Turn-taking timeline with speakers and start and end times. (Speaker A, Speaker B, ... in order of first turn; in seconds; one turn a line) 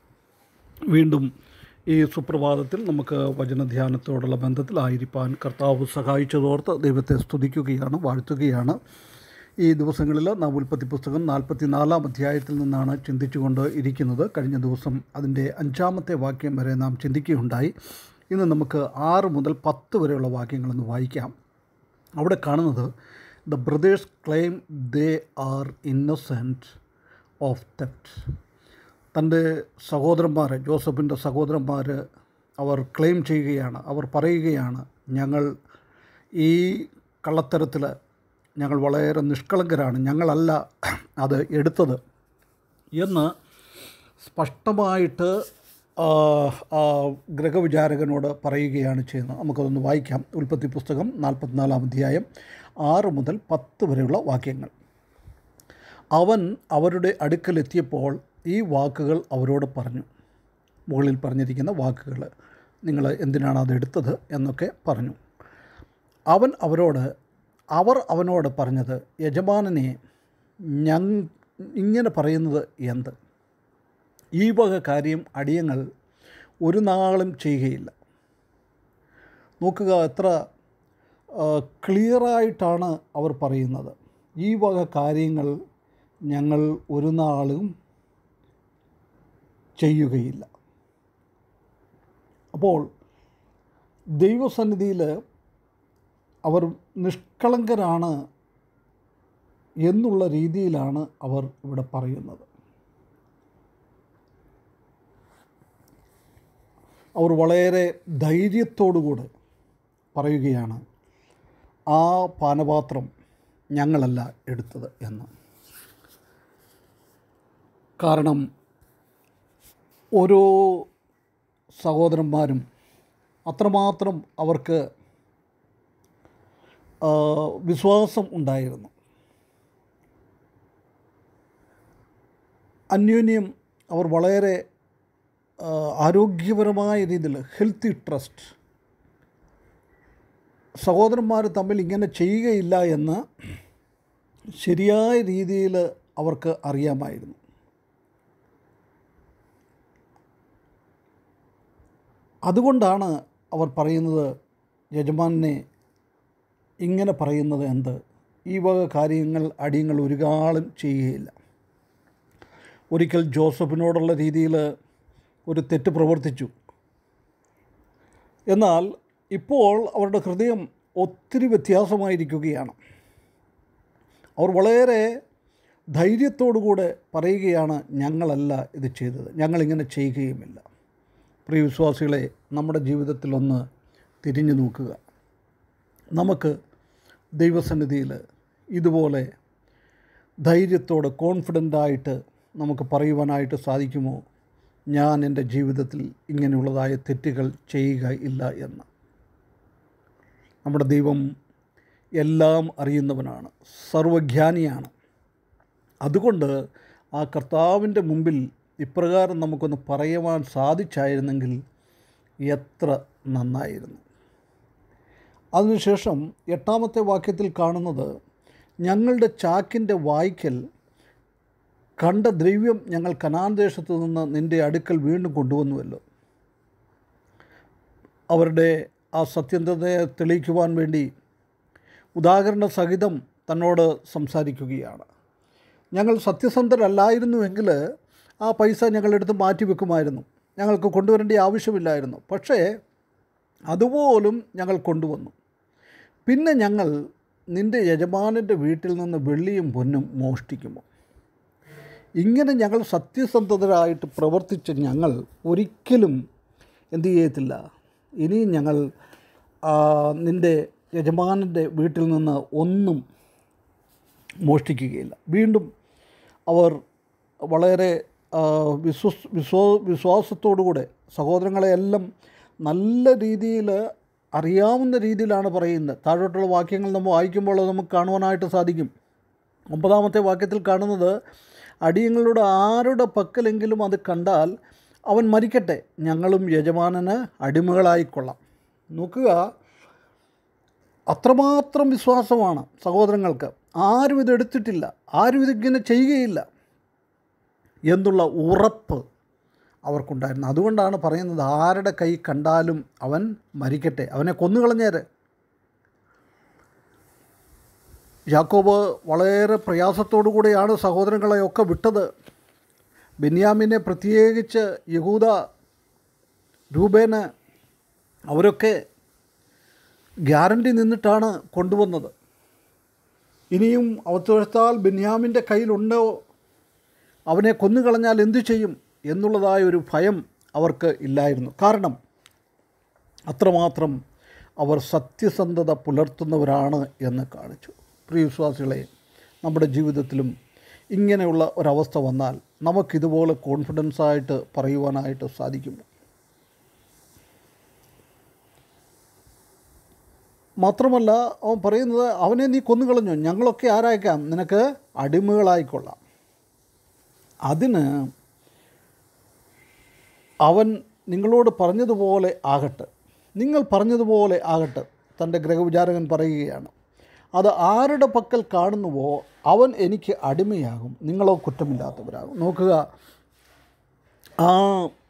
Speaker A: 0.9-1.3
Speaker A: 1.9-8.8
Speaker A: 9.6-17.7
Speaker A: 18.3-21.3
Speaker A: 22.2-22.9
Speaker A: 23.5-26.8
Speaker A: 27.4-28.2
Speaker A: 29.1-32.0
Speaker A: 32.6-35.5
Speaker A: 36.4-37.9
Speaker A: 38.6-40.6
Speaker A: 41.2-42.0
Speaker A: 43.0-43.3
Speaker A: 44.2-45.3
Speaker A: 46.0-52.2
Speaker A: 52.8-54.7
Speaker A: 56.2-60.1
Speaker A: 60.9-62.3
Speaker A: 62.9-65.2
Speaker A: 66.3-67.1
Speaker A: 67.8-69.9
Speaker A: 70.8-73.1
Speaker A: 74.4-75.8
Speaker A: 76.6-77.9
Speaker A: 79.6-80.3
Speaker A: 81.3-85.5
Speaker A: 86.3-87.7
Speaker A: 89.8-90.5
Speaker A: 92.5-92.9
Speaker A: 94.2-95.1
Speaker A: 96.5-98.1
Speaker A: 99.8-102.5
Speaker A: 107.2-109.3
Speaker A: 110.1-110.8
Speaker A: 111.9-113.1
Speaker A: 113.8-115.3
Speaker A: 118.0-118.4
Speaker A: 120.2-120.9
Speaker A: 121.8-122.6
Speaker A: 123.5-124.8
Speaker A: 127.0-128.9
Speaker A: 132.9-134.6
Speaker A: 135.6-138.5
Speaker A: 140.8-143.2
Speaker A: 144.6-147.4
Speaker A: 152.5-154.3
Speaker A: 154.9-155.6
Speaker A: 156.8-158.0
Speaker A: 158.5-161.3
Speaker A: 162.9-164.6
Speaker A: 165.5-166.5
Speaker A: 168.5-172.8
Speaker A: 174.4-175.0
Speaker A: 176.0-180.6
Speaker A: 181.4-183.6
Speaker A: 184.2-185.0
Speaker A: 186.2-186.5
Speaker A: 187.4-188.2
Speaker A: 188.8-189.3
Speaker A: 190.4-194.2
Speaker A: 194.9-198.9
Speaker A: 200.6-201.2
Speaker A: 202.2-204.9
Speaker A: 206.0-206.5
Speaker A: 207.2-211.6
Speaker A: 212.5-214.0
Speaker A: 215.6-218.1
Speaker A: 218.8-220.6
Speaker A: 222.0-226.0
Speaker A: 228.3-231.1
Speaker A: 232.2-235.1
Speaker A: 235.9-237.8
Speaker A: 238.4-242.6
Speaker A: 243.7-245.3
Speaker A: 246.2-246.9
Speaker A: 247.5-250.8
Speaker A: 252.2-256.2
Speaker A: 256.9-257.6
Speaker A: 258.2-258.8
Speaker A: 259.7-263.0
Speaker A: 264.4-265.7
Speaker A: 266.5-266.8
Speaker A: 267.5-272.1
Speaker A: 272.6-273.8
Speaker A: 274.4-278.9
Speaker A: 279.7-281.1
Speaker A: 281.9-284.5
Speaker A: 285.1-288.4
Speaker A: 288.9-289.4
Speaker A: 291.1-296.4
Speaker A: 297.9-299.0
Speaker A: 299.9-305.0
Speaker A: 308.3-312.1
Speaker A: 313.2-315.3
Speaker A: 316.7-317.2
Speaker A: 318.3-318.7
Speaker A: 320.3-322.1
Speaker A: 323.5-326.2
Speaker A: 327.3-331.9
Speaker A: 333.3-334.0
Speaker A: 334.6-338.9
Speaker A: 339.4-340.3
Speaker A: 340.9-345.9
Speaker A: 350.6-356.0
Speaker A: 357.5-357.9
Speaker A: 360.4-366.7
Speaker A: 367.4-372.8
Speaker A: 374.4-374.9